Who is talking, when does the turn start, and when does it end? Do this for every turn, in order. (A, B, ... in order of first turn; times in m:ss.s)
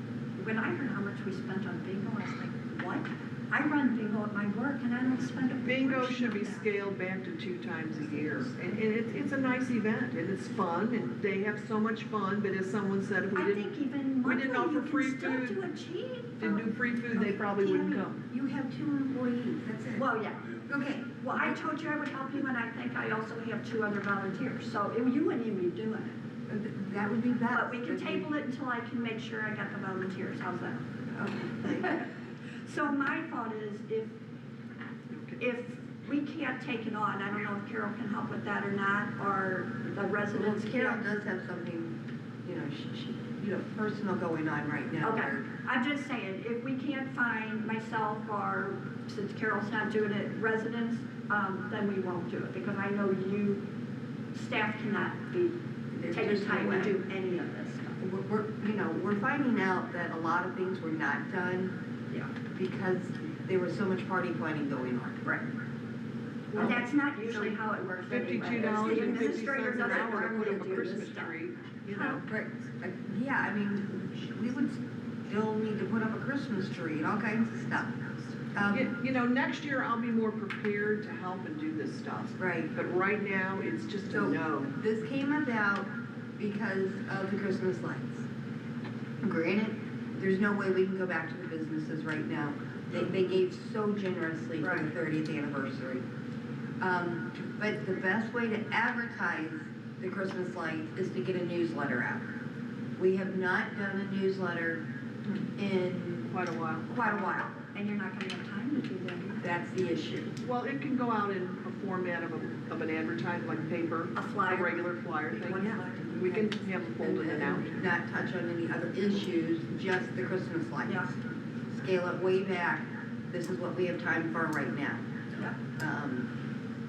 0:00.4-0:06.7 A
0:05.6-0:13.7 B
0:13.3-0:16.7 A
0:14.2-0:15.6 B
0:16.4-0:18.2 B
0:17.1-0:20.1 C
0:20.0-0:20.6 A
0:20.6-0:21.4 C
0:21.2-0:26.2 A
0:26.5-0:28.3 C
0:27.5-0:30.8 A
0:31.1-0:32.0 C
0:31.6-0:32.1 A
0:32.6-0:34.1 A
0:35.1-0:35.4 B
0:35.4-0:41.0 A
0:40.3-0:41.9 C
0:42.4-0:45.5 C
0:45.0-0:53.6 A
0:54.3-0:55.6 A
0:55.9-0:57.0 C
0:56.1-0:58.0 A
0:58.0-1:01.7 C
1:02.5-1:05.2 C
1:06.5-1:06.9 B
1:06.5-1:07.6 C
1:06.5-1:11.3 A
1:08.1-1:12.3 B
1:08.6-1:10.7 C
1:11.9-1:12.2 A
1:12.2-1:18.9 C
1:18.7-1:24.7 B
1:22.4-1:22.7 C
1:24.1-1:28.3 C
1:29.2-1:36.0 C
1:34.6-1:34.9 A
1:36.8-1:42.3 C
1:43.0-1:44.8 C
1:45.6-1:46.3 C
1:46.3-1:47.3 B
1:46.9-1:47.6 C
1:47.7-1:49.4 A
1:49.4-1:50.3 C
1:50.4-1:57.9 B
1:54.2-1:56.6 A
1:56.3-2:01.1 C
2:01.7-2:06.3 C